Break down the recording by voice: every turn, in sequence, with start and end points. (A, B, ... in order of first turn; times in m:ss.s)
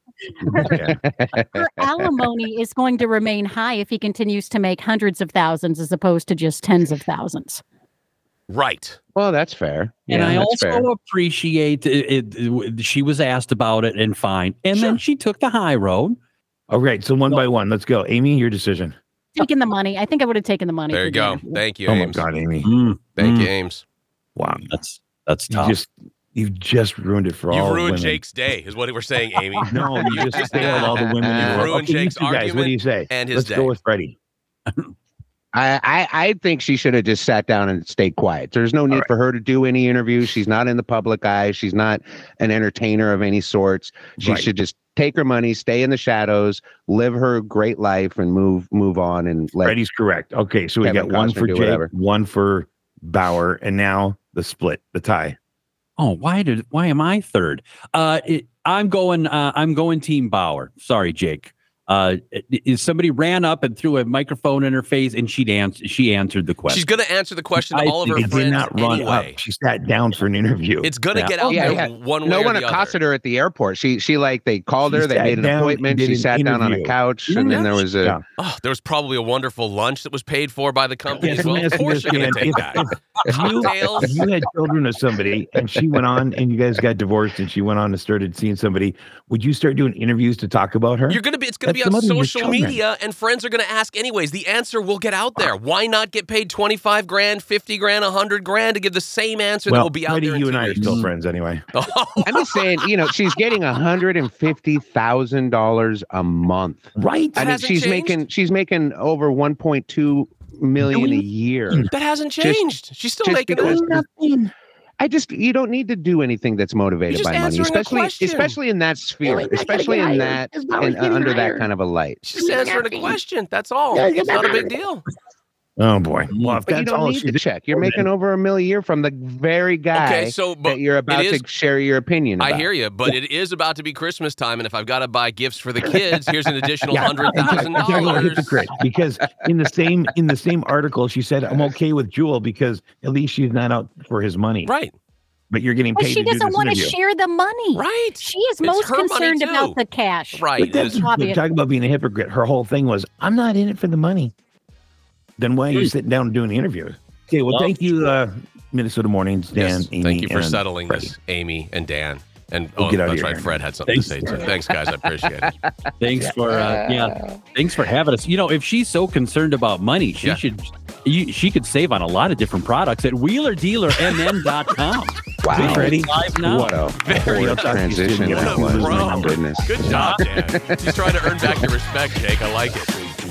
0:00.4-0:00.8 A
0:00.6-0:01.0 B
0:00.7-0:01.6 C
0:01.5-0:07.6 A
0:08.5-0:09.0 D
0:09.1-0:10.8 C
0:10.1-0:16.2 E
0:16.7-0:18.9 B
0:19.4-0:21.6 A
0:20.9-0:22.2 D
0:21.9-0:22.7 B
0:22.6-0:23.5 E
0:23.2-0:23.8 D
0:24.4-0:24.7 B
0:24.7-0:25.8 E
0:25.5-0:28.2 B
0:27.5-0:33.8 D
0:29.6-0:34.2 B
0:29.7-0:30.1 E
0:30.5-0:31.7 C
0:34.7-0:34.9 E
0:35.5-0:49.7 C
0:44.2-0:44.5 B
0:49.6-0:55.4 B
0:50.8-0:51.9 C
0:56.0-1:06.8 E
1:06.7-1:09.4 D
1:07.6-1:08.4 E
1:08.1-1:11.8 B
1:10.8-1:13.0 D
1:11.4-1:18.2 C
1:14.8-1:17.0 B
1:17.3-1:17.7 E
1:17.4-1:17.7 D
1:18.4-1:24.1 D
1:21.1-1:32.8 B
1:21.3-1:22.5 C
1:23.3-1:24.3 C
1:31.1-1:41.0 D
1:39.6-1:41.6 B
1:40.8-1:41.1 E
1:41.7-1:42.8 D
1:42.2-1:51.9 C
1:47.0-1:47.4 B
1:47.4-1:48.2 D
1:50.8-1:51.9 B
1:51.9-1:53.8 D
1:52.4-1:52.6 C
1:53.2-1:54.0 C
1:53.6-1:54.5 B
1:55.0-2:02.2 C
1:57.1-1:58.6 D
1:59.2-2:01.7 B
2:02.2-2:05.0 D
2:02.4-2:03.2 B
2:03.9-2:04.7 B
2:05.8-2:08.0 B
2:06.7-2:12.7 C
2:09.9-2:11.4 D
2:12.4-2:18.6 D
2:16.9-2:24.7 B
2:17.8-2:18.3 C
2:24.6-2:24.9 D
2:25.5-2:27.0 B
2:25.9-2:31.4 A
2:27.7-2:29.8 D
2:30.3-2:31.0 D
2:30.6-2:34.3 B
2:35.4-2:41.1 B
2:37.5-2:37.8 E
2:39.6-2:45.5 D
2:42.8-2:44.4 B
2:43.9-2:44.5 E
2:46.0-2:56.7 E
2:46.4-2:47.4 C
2:55.4-3:01.6 C
2:55.5-2:59.4 B
2:57.0-2:57.7 D
2:58.3-3:03.0 D
2:59.9-3:00.2 E